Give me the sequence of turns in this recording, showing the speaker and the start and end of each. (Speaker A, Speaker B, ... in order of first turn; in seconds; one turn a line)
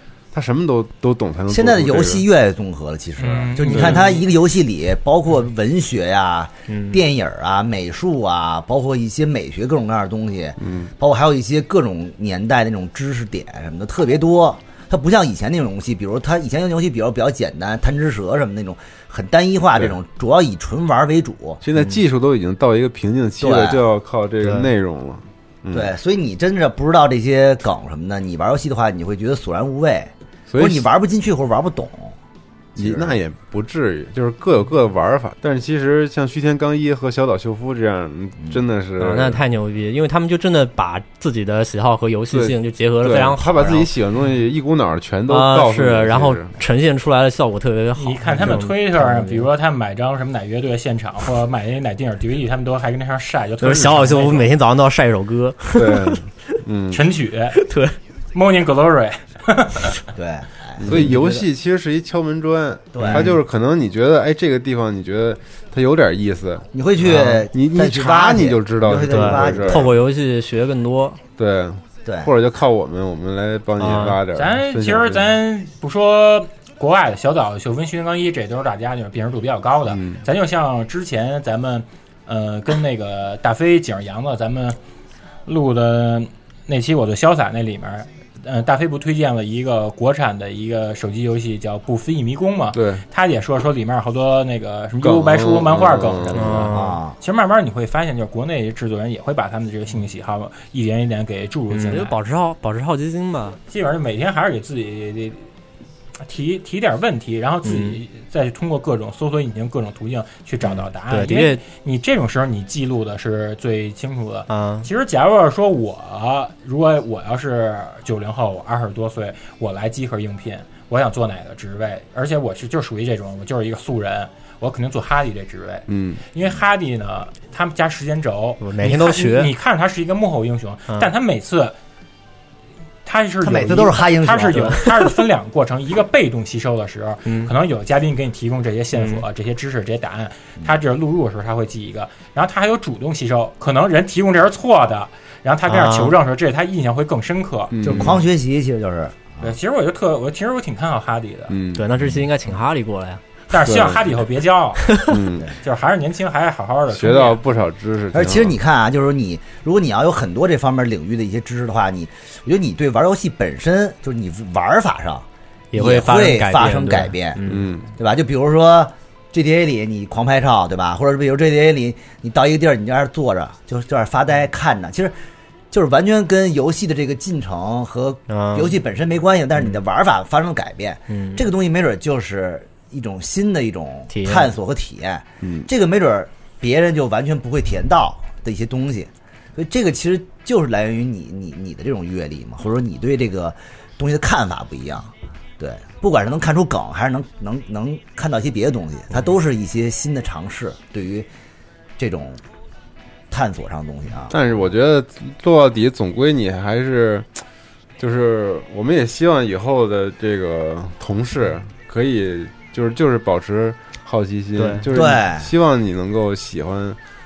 Speaker A: 0.3-2.2
Speaker B: 1.5-21.6
Speaker C: 3.2-4.2
Speaker D: 6.7-7.0
Speaker A: 10.6-10.9
Speaker A: 21.6-25.9
Speaker B: 23.4-23.8
Speaker D: 24.4-24.7
Speaker B: 25.7-32.2
Speaker A: 30.5-30.9
Speaker B: 32.8-33.2
Speaker A: 32.8-39.4
Speaker D: 39.0-43.8
Speaker A: 42.3-46.5
Speaker D: 45.3-49.5
Speaker C: 48.0-54.5
Speaker D: 53.6-56.6
Speaker A: 55.8-57.0
Speaker C: 56.9-57.6
Speaker D: 57.5-58.0
Speaker C: 58.3-60.0
Speaker B: 60.1-61.2
Speaker A: 60.8-66.7
Speaker D: 60.9-61.4
Speaker B: 62.9-63.3
Speaker D: 63.1-63.4
Speaker B: 66.7-69.9
Speaker D: 67.0-67.5
Speaker A: 67.5-69.9
Speaker D: 69.1-71.2
Speaker A: 71.4-75.3
Speaker B: 72.0-72.3
Speaker D: 73.8-74.2
Speaker C: 74.3-84.8
Speaker A: 79.9-80.2
Speaker C: 85.5-102.2
Speaker A: 92.7-93.0
Speaker A: 95.0-96.8
Speaker D: 96.3-97.0
Speaker B: 96.7-97.2
Speaker D: 101.7-103.6
Speaker C: 103.7-105.5
Speaker C: 106.2-131.8
Speaker D: 107.6-108.0
Speaker D: 110.6-111.6
Speaker D: 114.5-114.9
Speaker A: 125.9-126.2
Speaker D: 128.6-129.5
Speaker C: 133.1-147.8
Speaker B: 133.4-134.8
Speaker D: 134.6-135.1
Speaker D: 137.2-137.5
Speaker D: 138.9-139.2
Speaker D: 145.7-146.2
Speaker A: 147.7-148.2
Speaker B: 147.8-149.6
Speaker C: 149.4-151.5
Speaker A: 151.5-151.8
Speaker D: 151.8-153.8
Speaker C: 153.5-154.9
Speaker A: 153.7-154.1
Speaker D: 154.9-155.2
Speaker A: 155.1-155.5
Speaker C: 155.6-157.4
Speaker A: 156.9-158.6
Speaker B: 158.1-167.4
Speaker D: 165.7-167.7
Speaker A: 167.5-167.9
Speaker B: 168.0-175.2
Speaker B: 175.7-201.3
Speaker D: 178.3-178.8
Speaker D: 181.1-181.4
Speaker D: 184.1-184.5
Speaker A: 185.4-185.7
Speaker B: 202.0-202.4
Speaker B: 203.3-204.4
Speaker A: 204.3-207.3
Speaker A: 208.0-217.0
Speaker D: 214.6-214.9
Speaker B: 214.9-215.5